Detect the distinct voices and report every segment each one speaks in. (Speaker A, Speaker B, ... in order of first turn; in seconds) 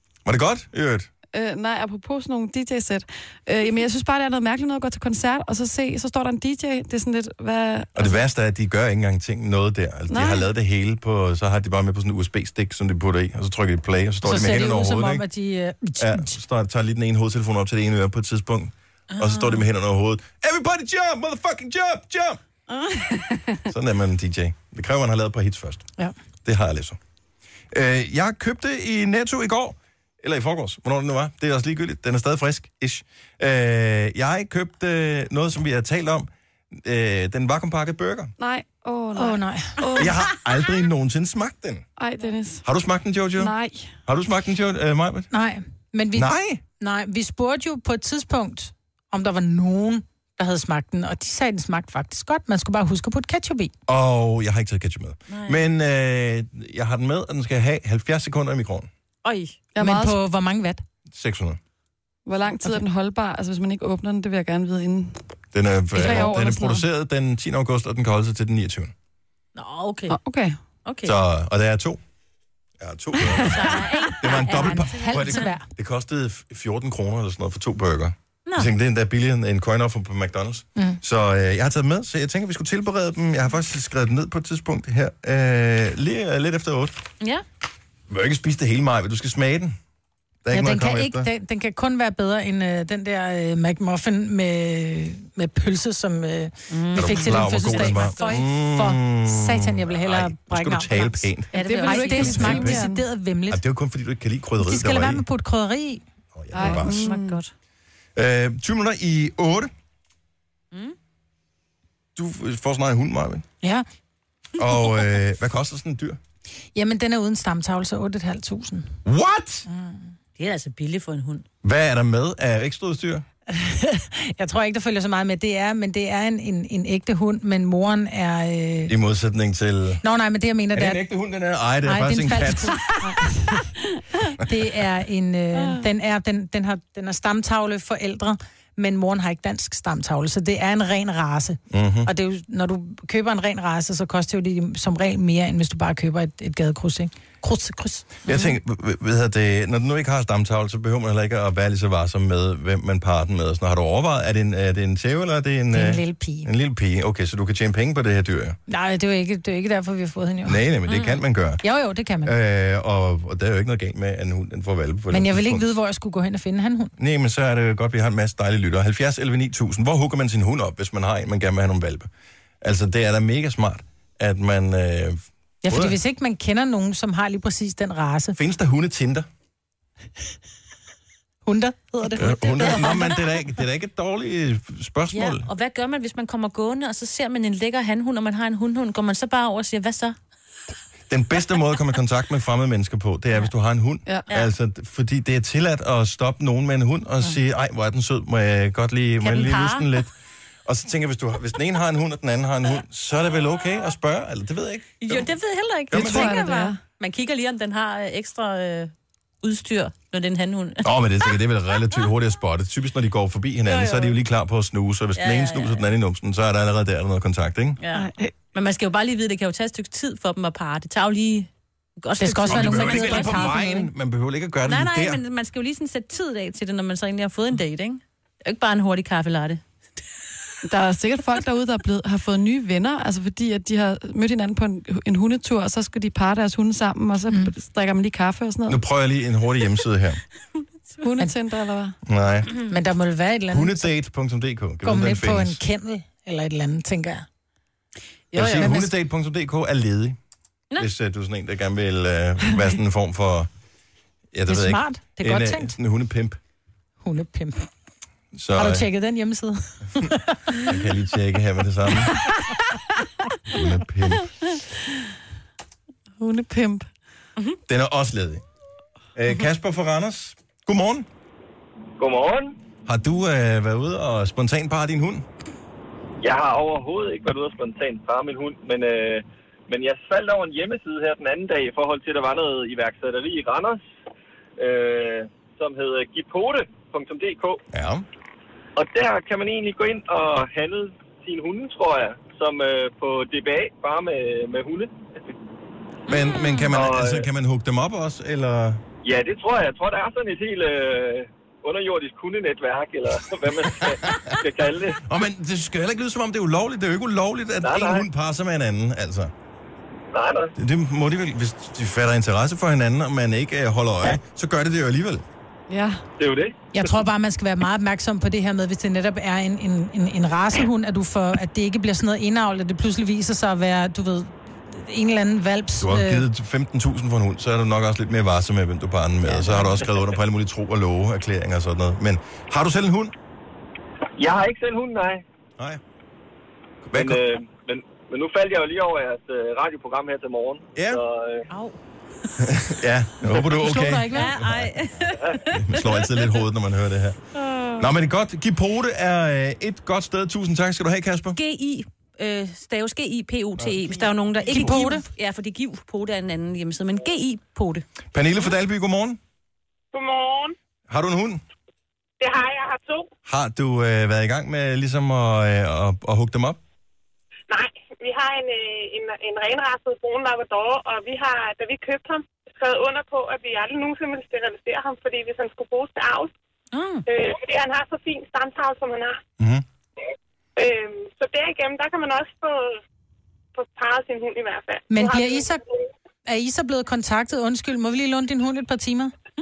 Speaker A: 0.2-1.1, 7.9-15.2, 16.0-22.4, 23.7-25.9, 26.4-27.0, 27.7-38.3, 40.0-41.9, 42.6-43.5, 44.0-45.3, 46.1-46.6, 53.9-58.9, 61.1-61.6, 65.5-68.9, 71.0-72.0, 72.8-87.0, 88.1-89.7, 90.4-91.3, 96.9-101.5, 102.2-102.8, 103.5-105.2, 106.3-107.1, 108.2-109.7, 112.2-113.5, 114.6-116.2, 119.0-119.7, 121.6-123.2, 128.9-130.0, 130.7-132.9, 141.7-142.1, 148.2-158.6, 160.4-161.6, 162.2-165.7, 167.0-172.1, 172.6-176.0, 178.3-179.3, 182.2-185.5, 191.1-200.1, 200.7-205.3, 205.9-206.4, 210.8-217.8, 222.4-225.2, 238.7-240.2, 242.1-242.5, 243.5-245.6, 248.3-250.2, 250.8-253.5, 254.3-256.4, 258.3-258.9, 260.6-262.2, 263.5-264.3, 267.7-268.4, 269.1-271.1, 272.9-275.2, 287.7-288.1, 296.1-298.8, 303.8-304.3, 305.0-309.3, 310.6-315.2, 325.8-333.1, 336.9-337.2, 340.7-341.0, 342.4-344.7, 345.3-347.2, 347.8-351.4, 353.6-354.7, 358.1-359.2, 360.9-361.4, 363.3-366.6, 379.4-379.6
Speaker B: 1.3-8.2, 10.1-10.4, 38.4-40.1, 42.0-42.6, 43.4-43.9, 59.7-60.2, 62.2-65.2, 65.9-66.8, 70.1-70.6, 101.5-103.0, 106.5-107.4, 205.9-206.8, 217.9-218.3, 230.6-238.8, 241.0-241.9, 266.2-266.9, 315.7-316.0
Speaker C: 14.2-16.4, 39.1-39.9, 45.3-53.7, 59.8-60.8, 74.5-75.7, 90.5-103.6, 104.6-106.0, 116.7-118.9, 119.7-120.0, 123.5-128.9, 130.0-131.0, 131.8-133.7, 134.3-148.0, 155.7-156.5, 158.7-160.6, 161.6-162.3, 165.1-166.9, 175.6-178.4, 181.4-183.1, 222.2-223.9, 242.7-243.9, 244.8-247.2, 248.4-248.7, 254.5-255.7, 257.0-257.7, 258.6-260.7, 316.7-326.2, 343.6-344.3, 354.4-355.1, 384.9-385.6, 386.2-389.1
Speaker D: 19.1-19.6, 55.3-55.6, 59.2-59.5, 69.5-70.2, 70.8-71.2, 73.5-75.5, 96.7-98.4, 101.5-102.8, 106.6-107.5, 120.4-121.4, 148.3-148.6, 160.9-161.2, 185.1-190.2, 199.2-199.9, 205.0-210.9, 213.7-214.2, 215.2-215.8, 217.8-221.5, 222.0-223.7, 224.6-229.6, 248.3-248.8, 296.1-296.7, 341.5-341.8, 344.1-346.3, 347.3-347.9, 351.3-357.8, 376.7-377.0
Speaker E: 272.0-272.6, 276.2-283.8, 284.6-287.6, 288.8-295.3, 296.7-297.3, 299.0-305.0, 307.6-308.1, 310.1-310.5, 316.2-316.6, 334.1-335.2, 336.9-341.5
Speaker F: 359.9-360.6, 362.2-363.1, 367.5-376.3, 377.1-379.2, 380.6-382.8, 383.5-385.9